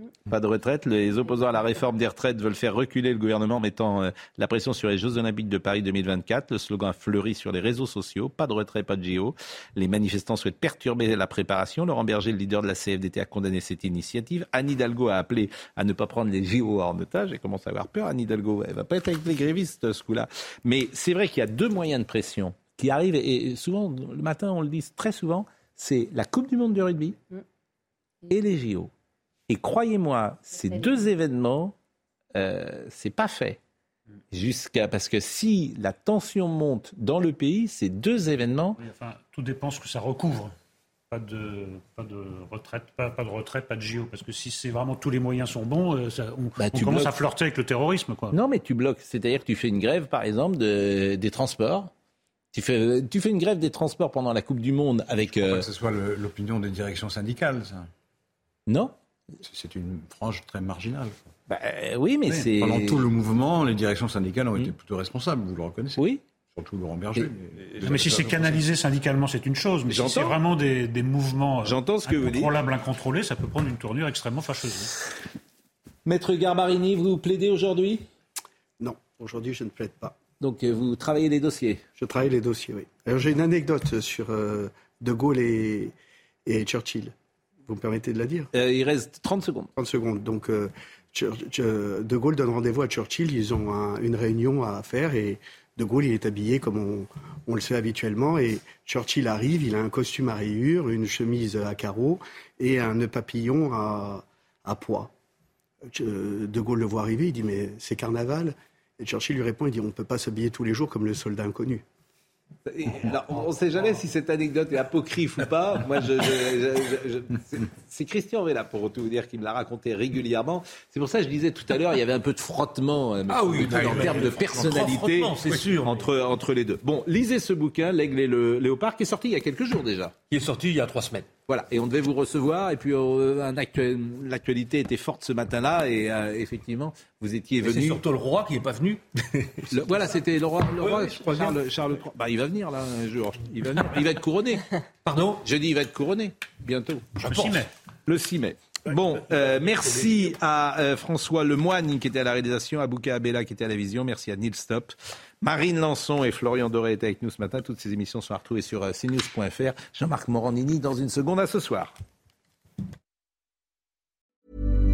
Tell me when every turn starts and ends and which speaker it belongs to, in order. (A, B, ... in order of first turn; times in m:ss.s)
0:00.3-0:27.2 A
0:28.3-0:28.9 A
0:29.5-0:31.7 A
0:32.3-0:33.6 A
0:34.3-0:38.8 A
0:38.8-0:40.5 B
0:41.1-0:48.3 B
0:46.6-0:47.1 A
0:48.3-0:51.9 A
0:52.5-0:55.6 A
0:55.3-0:57.9 C
0:58.7-0:58.9 A
0:59.4-1:01.3 C
1:01.5-1:03.1 A
1:02.3-1:06.0 C
1:06.0-1:06.2 A
1:06.5-1:08.6 C
1:07.8-1:15.0 B
1:09.9-1:10.4 A
1:11.6-1:12.5 A
1:16.0-1:18.0 A
1:18.8-1:20.2 D
1:20.4-1:21.8 A
1:22.0-1:25.9 D
1:26.4-1:27.1 D
1:27.6-1:28.5 D
1:28.5-1:29.7 A
1:29.8-1:45.1 D
1:45.9-1:51.8 D
1:52.6-2:10.2 A
2:03.3-2:06.1 E
2:03.4-2:04.6 C
2:10.3-2:11.3 E
2:11.5-2:18.0 A
2:17.6-2:20.1 E
2:19.7-2:24.6 A
2:20.8-2:21.6 E
2:25.0-2:25.4 E
2:25.4-2:27.5 A
2:27.2-2:27.5 E
2:27.2-2:27.7 B
2:28.1-2:41.9 A